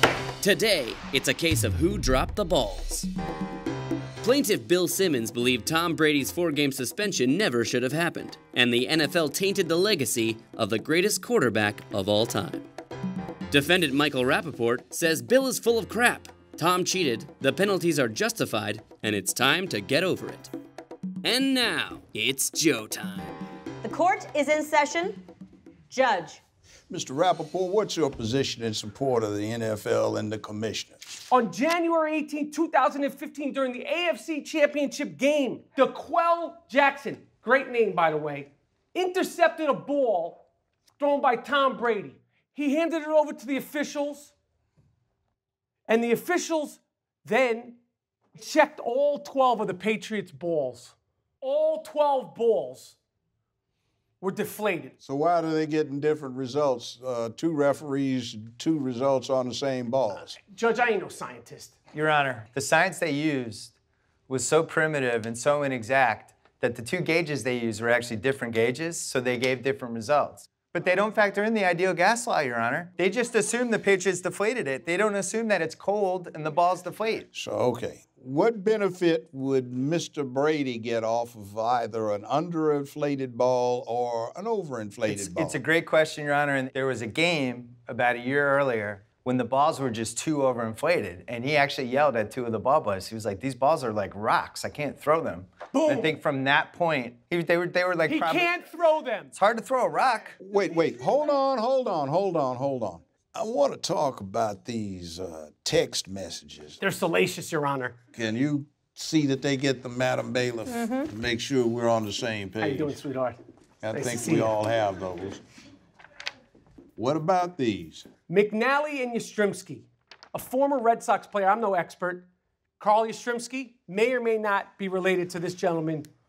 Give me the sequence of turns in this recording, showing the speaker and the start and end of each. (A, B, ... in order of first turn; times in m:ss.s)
0:00.4-0:03.1 A
0:04.2-0:12.7 A
0:13.5-0:20.5 A
0:21.2-0:23.4 A
0:23.8-0:25.2 B
0:25.9-0:26.4 B
0:26.9-0:31.1 C
0:31.3-0:40.4 D
0:41.0-0:44.3 D
0:45.9-0:47.8 D
0:48.4-0:53.0 D
0:54.2-0:55.0 D
0:55.0-1:00.4 C
1:00.3-1:01.8 D
1:01.9-1:03.8 E
1:04.3-1:17.3 E
1:17.3-1:25.6 C
1:25.1-1:38.5 E
1:35.7-1:36.1 D
1:38.1-1:39.4 D
1:39.3-1:40.4 E
1:40.4-1:46.8 C
1:46.8-1:48.0 D
1:48.1-1:53.0 C
1:52.6-1:53.4 D
1:53.8-1:55.4 C
1:53.9-1:54.5 D
1:57.0-1:58.1 C
1:58.3-2:02.3 D
2:02.8-2:06.1 D